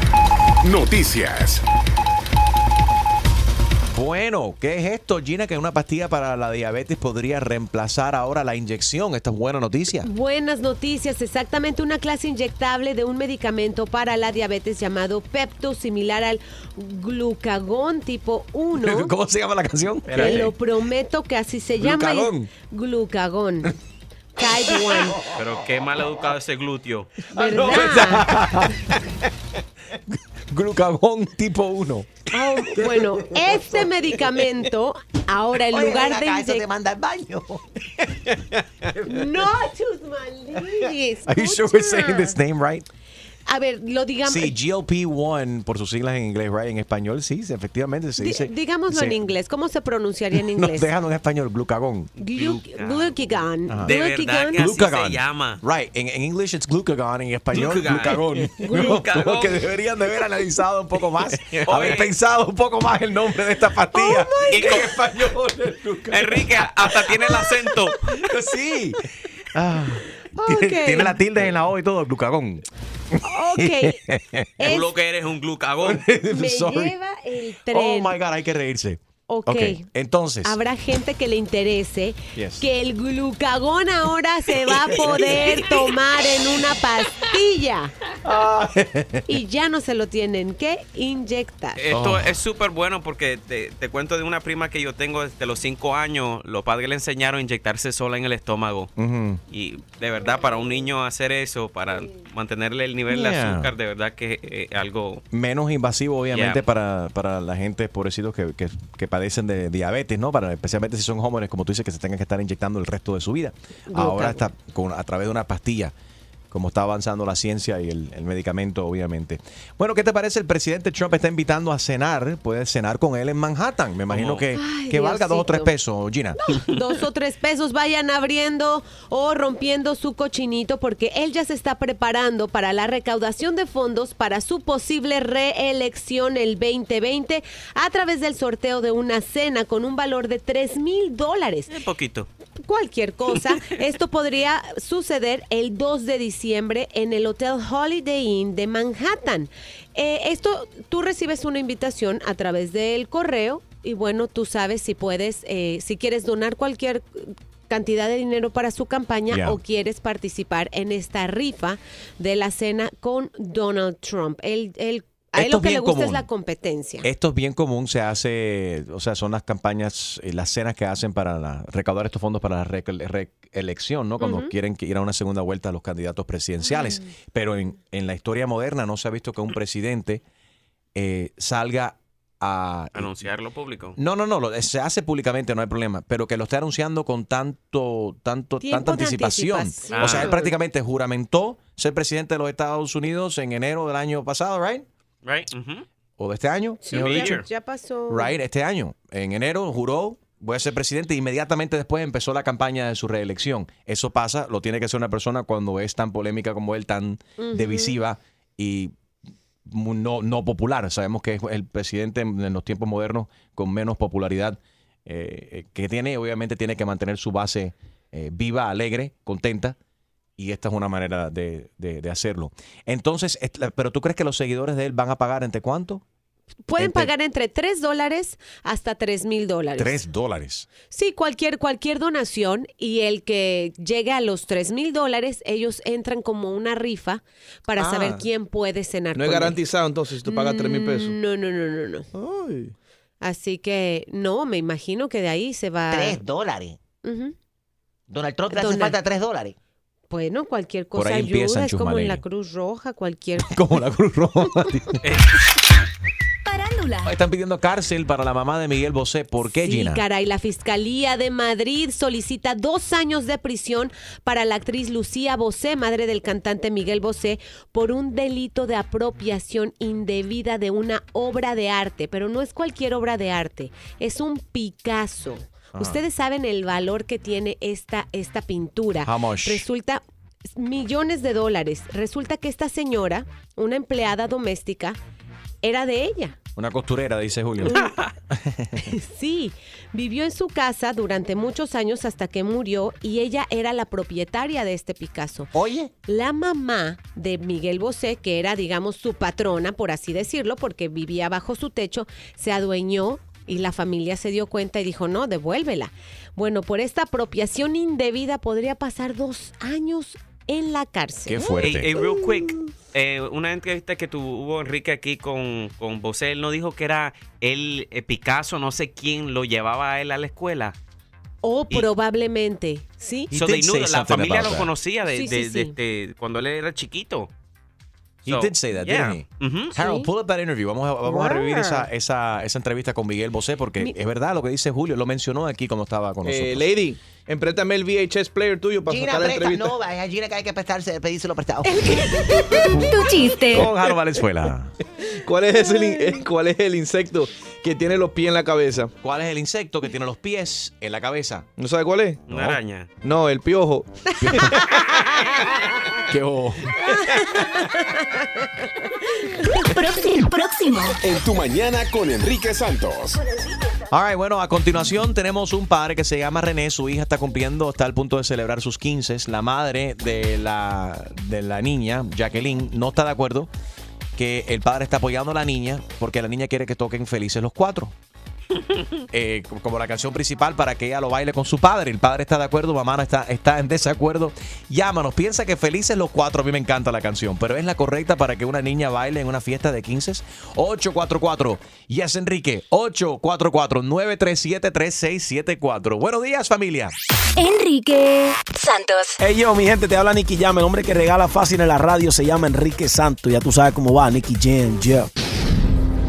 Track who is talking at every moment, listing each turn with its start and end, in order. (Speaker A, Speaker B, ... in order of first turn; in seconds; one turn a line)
Speaker A: 0.6-1.6
Speaker B: 3.9-10.1
Speaker C: 10.0-19.1
Speaker B: 18.8-20.5
Speaker C: 20.1-23.7
Speaker B: 21.8-22.5
Speaker C: 24.4-25.2
Speaker D: 25.3-28.0
Speaker B: 27.4-28.9
Speaker C: 27.4-28.3
Speaker B: 30.5-32.1
Speaker C: 32.3-36.6
Speaker E: 35.7-37.6
Speaker C: 39.0-42.4
Speaker B: 41.2-42.9
Speaker C: 43.5-44.5
Speaker B: 44.3-49.2
Speaker C: 48.2-50.9
Speaker B: 50.3-52.1
Speaker C: 52.2-54.6
Speaker D: 52.3-55.6
Speaker B: 54.5-69.0
Speaker D: 57.5-59.6
Speaker C: 58.6-59.0
Speaker D: 61.5-62.1
Speaker C: 63.9-64.7
Speaker D: 64.5-64.9
Speaker D: 66.1-68.2
Speaker B: 69.5-74.7
Speaker C: 70.4-71.2
Speaker C: 73.2-74.0
Speaker C: 74.6-74.9
Speaker D: 74.6-76.1
Speaker B: 75.8-76.9
Speaker C: 76.3-78.1
Speaker B: 77.7-80.5
Speaker C: 79.3-79.8
Speaker C: 80.4-87.9
Speaker B: 82.3-82.6
Speaker B: 84.7-85.8
Speaker B: 88.2-89.3
Speaker C: 89.3-91.8
Speaker D: 91.8-98.9
Speaker B: 91.9-92.3
Speaker B: 99.0-99.4
Speaker D: 99.5-105.2
Speaker B: 103.1-103.7
Speaker B: 105.3-115.9
Speaker D: 106.3-106.6
Speaker C: 113.9-114.4
Speaker B: 116.5-126.4
Speaker D: 124.1-124.4
Speaker C: 124.5-125.7
Speaker C: 126.5-141.8
Speaker D: 141.7-142.3
Speaker C: 142.6-167.1
Speaker B: 159.3-159.6
Speaker B: 165.3-166.2
Speaker B: 167.0-180.2
Speaker C: 174.2-174.5
Speaker B: 180.9-183.2
Speaker D: 182.9-184.0
Speaker B: 183.9-194.8
Speaker C: 188.6-190.5
Speaker D: 189.9-190.3
Speaker D: 195.2-195.8
Speaker B: 196.2-197.4
Speaker C: 196.8-198.3
Speaker D: 196.9-197.4
Speaker B: 198.1-208.9
Speaker C: 207.4-208.0
Speaker B: 209.7-219.8
Speaker B: 220.4-226.0
Speaker C: 226.7-230.0
Speaker B: 226.8-227.1
Speaker B: 229.8-230.7
Speaker C: 230.9-239.6
Speaker F: 237.8-238.0
Speaker F: 239.1-241.2
Speaker C: 240.2-242.1
Speaker F: 242.1-242.7
Speaker C: 243.2-246.2
Speaker E: 245.9-246.8
Speaker C: 247.0-247.3
Speaker E: 248.1-249.5
Speaker C: 248.5-248.9
Speaker C: 250.1-253.6
Speaker B: 250.9-252.2
Speaker B: 253.5-255.0
Speaker G: 256.4-257.1
Speaker B: 257.0-260.0
Speaker C: 259.4-285.0
Speaker B: 275.7-276.0
Speaker B: 279.0-279.6
Speaker C: 285.6-286.4
Speaker B: 286.6-288.8
Speaker C: 288.8-295.5
Speaker E: 295.5-295.9
Speaker C: 296.0-312.1
Speaker B: 311.3-311.9
Speaker D: 311.6-320.7
Speaker C: 321.4-323.3
Speaker B: 323.3-324.7
Speaker D: 323.3-327.3
Speaker C: 325.1-325.7
Speaker B: 328.2-329.2
Speaker D: 328.2-329.7
Speaker C: 329.7-330.1
Speaker B: 329.7-336.7
Speaker C: 331.1-331.8
Speaker F: 336.2-339.7
Speaker E: 338.9-342.1
Speaker C: 341.6-342.9
Speaker G: 342.7-343.7
Speaker B: 343.5-344.7
Speaker F: 345.2-348.9
Speaker B: 349.0-351.5
Speaker F: 351.6-352.2
Speaker B: 352.3-352.6
Speaker D: 352.3-352.9
Speaker F: 353.0-353.9
Speaker B: 354.2-354.6
Speaker C: 354.4-355.1
Speaker B: 356.1-356.8
Speaker G: 359.6-361.0
Speaker A: 361.0-363.2
Speaker B: 363.9-373.5
Speaker B: 374.1-377.9
Speaker B: 379.1-396.9
Speaker G: 397.4-399.2
Speaker H: 399.2-405.1